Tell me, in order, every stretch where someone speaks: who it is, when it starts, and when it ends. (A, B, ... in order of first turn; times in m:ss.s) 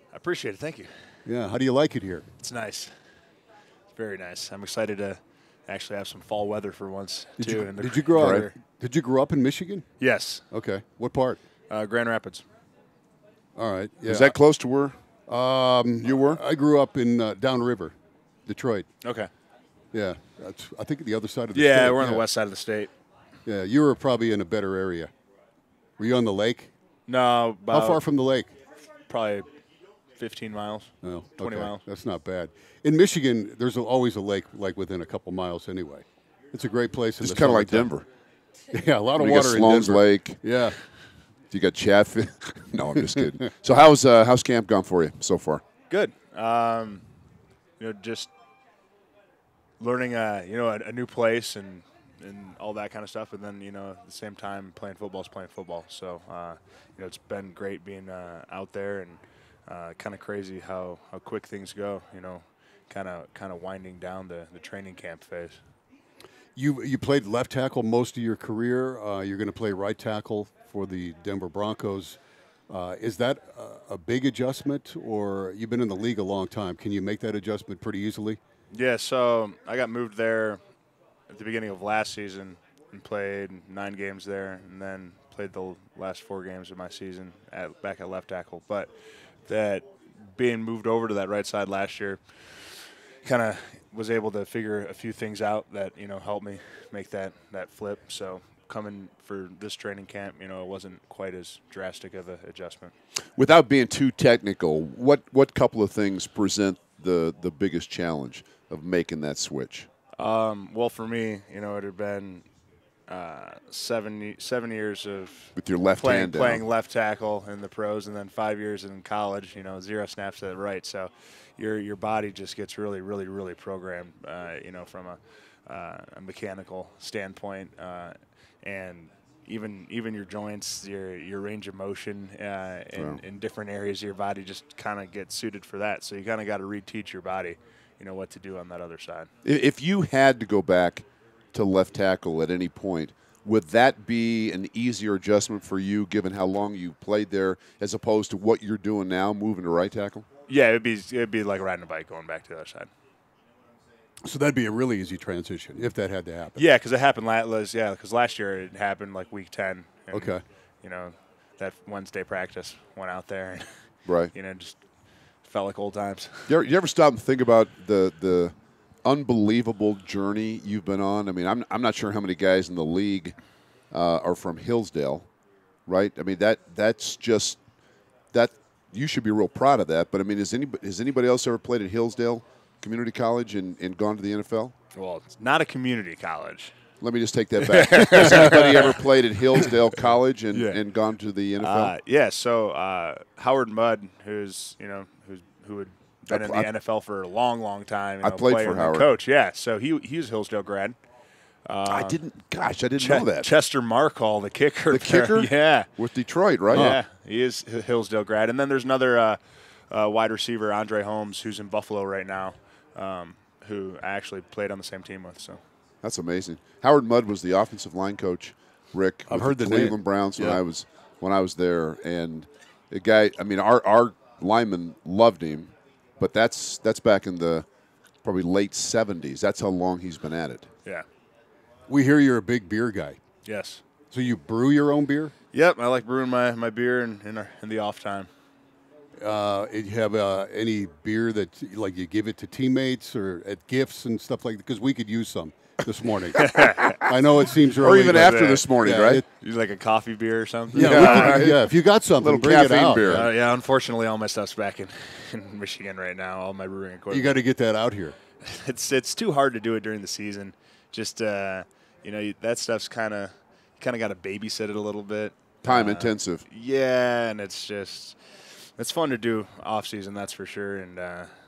0:00.1-0:00.9 A
0:01.2-0:02.3 B
0:02.4-0:02.9 A
0:03.9-0:08.5 A
0:07.4-0:09.9 B
0:08.1-0:08.4 C
0:10.0-0:10.4 A
0:10.5-0:11.4 B
0:11.7-0:12.4 A
0:13.6-0:14.3 B
0:14.0-0:15.0 C
0:15.3-0:17.9 B
0:16.0-0:16.4 C
0:18.4-0:18.9 B
0:19.0-0:19.3 A
0:19.9-0:22.2 B
0:21.5-0:22.9 A
0:23.4-0:25.1 B
0:26.0-0:26.7 B
0:27.1-0:28.0 A
0:27.7-0:28.5 B
0:29.1-0:29.5 A
0:30.2-0:31.8 A
0:31.0-0:37.9 B
0:37.2-0:38.0 C
0:38.7-0:40.8 B
0:39.2-0:40.7 C
0:41.5-0:45.6 C
0:45.9-0:47.0 A
0:47.8-0:48.3 A
0:49.8-1:05.6 A
1:06.6-1:12.2 B
1:12.7-1:18.4 B
1:18.7-1:20.6 A
1:21.3-1:42.9 A
1:43.3-1:49.9 C
1:50.2-1:52.4 A
1:53.1-2:19.3 A
1:55.6-1:56.6 C
2:12.9-2:13.2 C
2:19.4-2:30.2 C
2:30.5-2:32.9 A
2:34.2-2:36.6 B
2:36.5-2:46.5 A
2:40.1-2:40.4 B
2:44.0-2:44.3 C
2:46.5-2:55.3 C
2:55.9-2:57.6 C
2:58.3-3:04.7 C
3:04.9-3:06.7 A
3:07.0-3:11.9 C
3:07.6-3:09.0 A
3:10.5-3:10.8 A
3:11.6-3:21.0 A
3:16.3-3:16.7 C
3:18.2-3:19.1 C
3:21.6-3:22.2 A
3:21.8-3:23.5 C
3:23.0-3:25.9 A
3:24.9-3:27.0 C
3:26.7-3:35.6 A
3:26.7-3:27.0 B
3:36.0-3:47.7 C
3:39.3-3:40.6 B
3:48.2-3:50.7 C
3:51.9-3:53.2 B
3:53.4-3:53.8 A
3:54.1-3:55.3 B
3:55.5-3:58.3 A
3:59.2-4:09.2 B
4:06.4-4:07.0 A
4:07.8-4:09.2 C
4:08.0-4:11.5 A
4:10.7-4:13.3 B
4:10.7-4:11.7 C
4:12.2-4:13.3 C
4:13.0-4:17.4 A
4:17.1-4:18.2 B
4:18.4-4:31.3 A
4:25.6-4:26.4 C